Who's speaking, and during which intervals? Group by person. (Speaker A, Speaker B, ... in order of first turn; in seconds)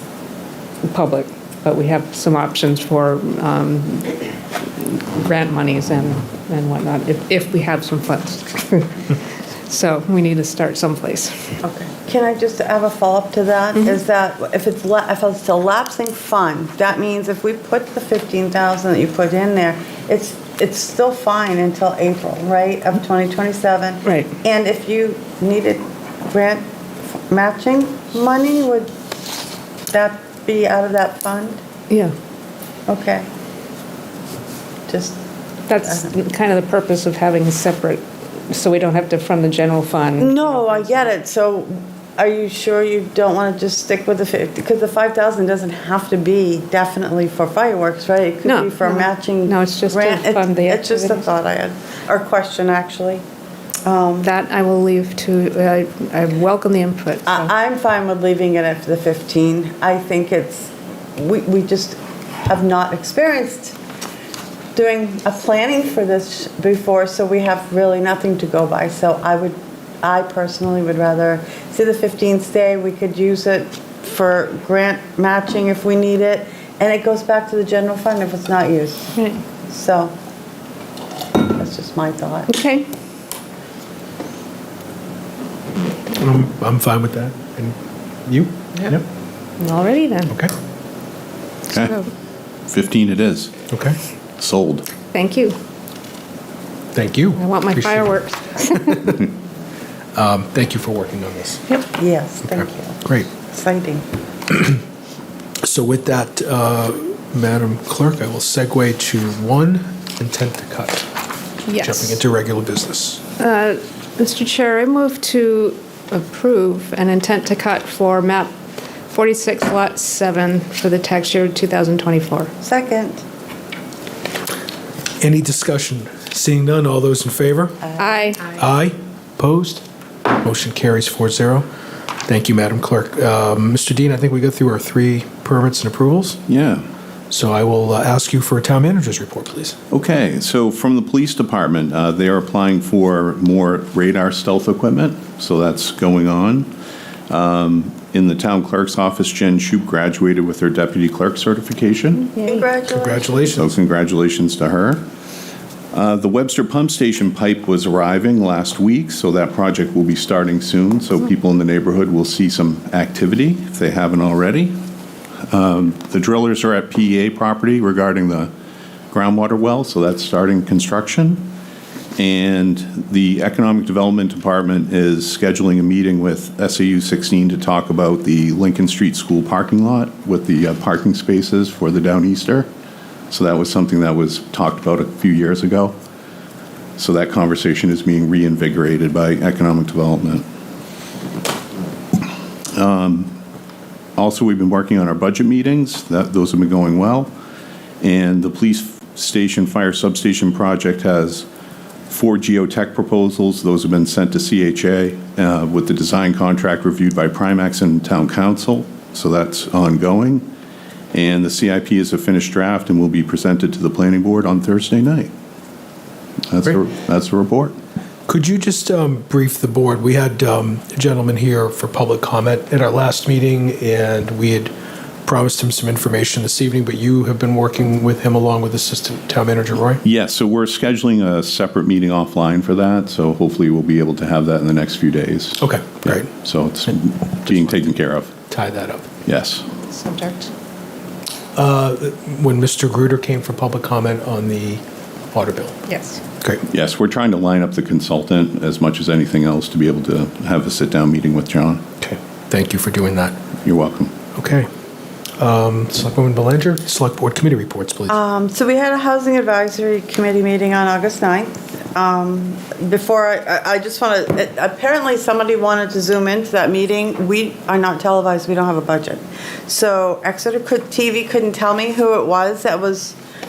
Speaker A: 0.8-11.6, 24.1-24.3, 31.9-32.1, 35.7-41.1, 48.5-51.3, 54.2-57.5, 79.2-79.4, 82.5-82.9, 89.6-90.3, 95.1-95.6, 97.4-99.1, 111.7-112.2, 113.4-118.5, 119.1-122.5, 128.0-128.5, 239.9-240.5, 245.9-246.2
Speaker B: 11.6-26.7, 27.3-28.9, 29.9-31.6, 32.9-33.3, 34.9-35.2, 35.8-36.1, 40.2-53.2, 53.9-54.3, 57.3-63.8, 64.8-79.1, 79.7-80.1, 81.6-82.6, 102.0-104.0, 122.6-123.2, 127.8-128.4, 152.2-153.5, 258.1-273.2
Speaker C: 86.1-87.8, 88.3-89.0, 93.7-94.0, 97.0-98.2, 98.7-99.3, 100.2-101.6, 103.0-103.3, 104.5-104.8, 105.6-111.1, 111.8-113.2, 125.2-127.8, 128.5-131.7, 132.3-136.4, 137.3-139.8, 152.9-153.7, 218.3-224.7, 225.2-230.0, 235.6-236.3, 237.5-237.8, 238.5-239.1, 241.6-244.8, 245.3-245.8, 252.0-253.3, 254.3-254.7, 255.4-258.1
Speaker D: 91.7-92.1, 92.7-93.6, 94.4-94.9, 136.5-136.8, 139.9-146.7, 147.3-152.2, 153.6-155.0, 155.9-164.8, 165.5-168.5, 169.1-171.5, 172.2-182.7, 183.3-186.0, 187.0-190.4, 192.8-193.4, 194.2-197.3, 198.0-201.5, 202.1-210.5, 211.1-215.3, 216.5-217.8, 230.0-238.3, 239.2-239.7, 246.7-251.8, 253.6-254.2